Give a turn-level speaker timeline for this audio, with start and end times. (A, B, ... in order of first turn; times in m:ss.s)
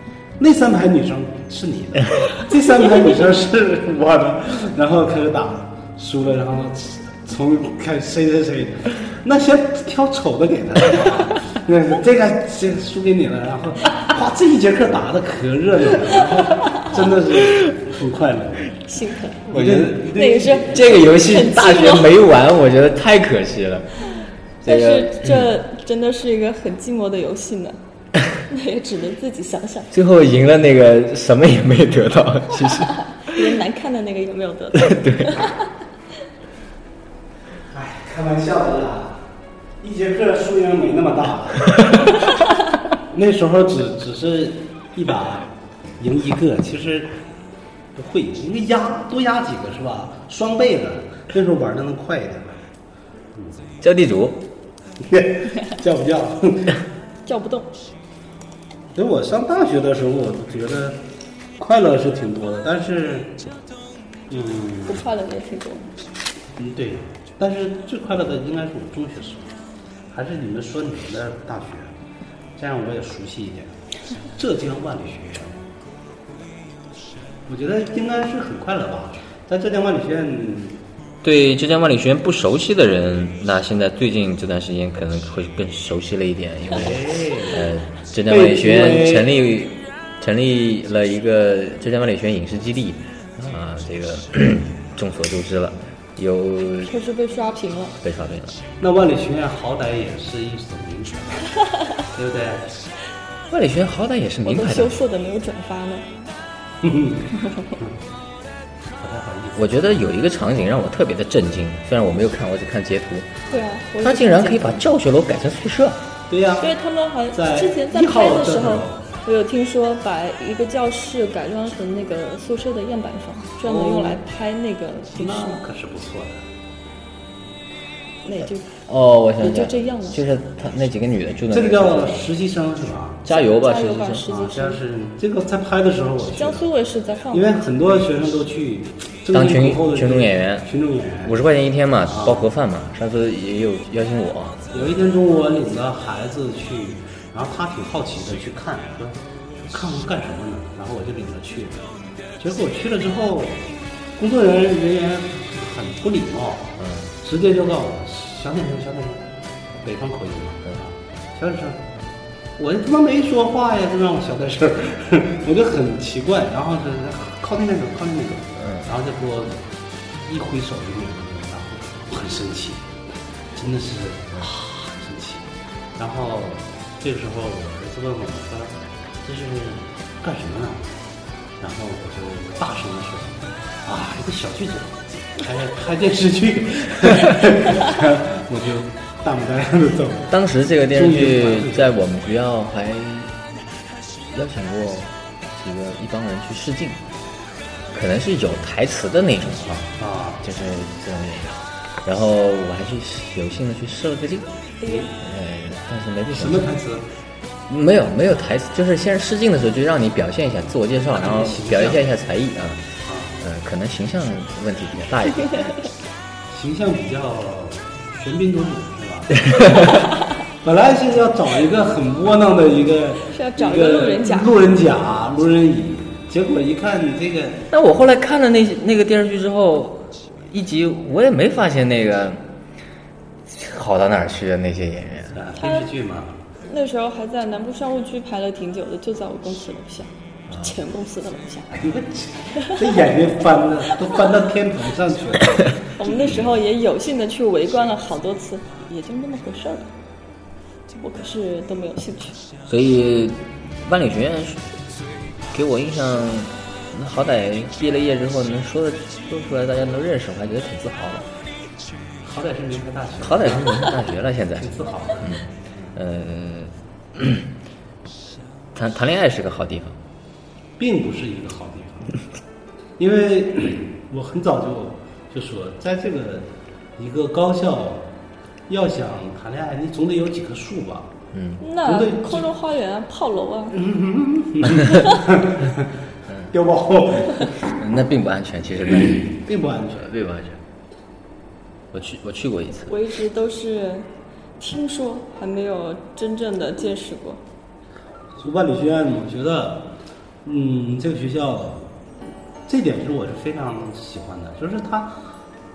0:00.4-0:18.8 A
0:18.9-0:19.5 B
0:19.5-0:21.1 A
0:19.5-0:20.0 C
0:20.0-0:22.2 B
0:20.7-0:23.9 C
0:24.6-0:25.5 C
0:24.6-0:27.8 B
0:28.4-0:29.9 B
0:29.9-0:33.4 C
0:33.3-0:35.4 B
0:34.8-0:35.4 C
0:37.7-0:39.3 A
0:39.8-0:42.0 A
0:43.1-0:47.2 A
0:48.0-0:52.6 A
0:53.8-0:54.4 C
0:55.0-0:56.8 A
0:57.3-0:57.7 B
0:59.0-1:01.0 A
1:01.6-1:03.4 A
1:04.3-1:05.0 A
1:04.9-1:05.9 B
1:06.6-1:09.5 A
1:10.1-1:11.9 A
1:12.6-1:13.7 A
1:14.4-1:15.5 A
1:17.5-1:20.8 A
1:21.2-1:36.9 C
1:26.7-1:27.7 A
1:28.3-1:29.4 A
1:36.9-1:38.0 B
1:38.0-1:38.6 C
1:38.8-1:41.6 A
1:42.1-1:42.8 A
1:43.5-1:45.0 C
1:44.5-1:46.1 B
1:46.8-1:47.9 A
1:49.0-1:49.9 A
1:49.6-1:53.4 C
1:53.5-1:54.8 B
1:54.0-1:56.0 C
1:56.3-1:56.7 A
1:56.6-2:05.6 B
1:57.3-1:59.0 A
2:03.6-2:04.2 A
2:05.1-2:06.4 A
2:08.2-2:08.8 B
2:08.9-2:12.3 C
2:09.4-2:10.2 B
2:11.5-2:13.2 A
2:13.2-2:14.2 C
2:13.3-2:14.8 B
2:14.3-2:16.7 A
2:16.4-2:17.6 B
2:17.3-2:21.4 A
2:19.3-2:20.7 C
2:21.2-2:24.9 C
2:22.1-2:22.5 A
2:24.7-2:33.6 A
2:34.2-2:39.3 A
2:36.8-2:37.1 C
2:39.8-2:41.8 A
2:42.6-2:49.6 A
2:50.2-2:52.9 A
2:53.5-2:55.4 A
2:56.0-3:00.9 A
3:01.6-3:10.3 A
3:10.3-3:13.4 C
3:10.9-3:12.0 A
3:14.3-3:17.0 C
3:17.9-3:24.5 C
3:20.0-3:20.4 A
3:24.8-3:25.1 B
3:25.1-3:26.7 C
3:26.3-3:27.1 A
3:27.7-3:32.8 C
3:31.2-3:32.1 A
3:33.1-3:33.4 A
3:33.4-3:35.7 C
3:36.5-3:39.5 A
3:39.5-3:39.9 C
3:40.6-3:47.7 A
3:43.3-3:44.5 B
3:47.7-3:52.4 C
3:53.5-3:55.4 C
3:55.4-3:56.4 A
3:55.6-3:55.9 B
3:56.7-4:01.7 B
4:00.5-4:00.8 C
4:01.7-4:06.4 A
4:06.0-4:09.9 B
4:11.0-4:12.4 B
4:12.7-4:14.6 C
4:15.5-4:21.3 C
4:22.2-4:24.0 A
4:23.2-4:24.7 C
4:24.6-4:25.5 A
4:25.2-4:27.5 C
4:28.8-4:30.0 C
4:30.8-4:32.1 A
4:33.0-4:38.1 A
4:38.7-4:41.1 A
4:41.3-4:41.6 C
4:41.6-4:43.8 B
4:41.8-4:42.4 A
4:43.7-4:45.9 A
4:44.9-4:45.2 B
4:46.5-4:47.5 A
4:47.5-4:49.3 C
4:49.3-4:50.1 A
4:50.0-4:50.6 C
4:51.9-4:52.9 C
4:52.9-4:54.1 B
4:54.6-4:57.4 B
4:58.4-4:59.9 A
5:00.4-5:01.9 A
5:02.7-5:05.2 A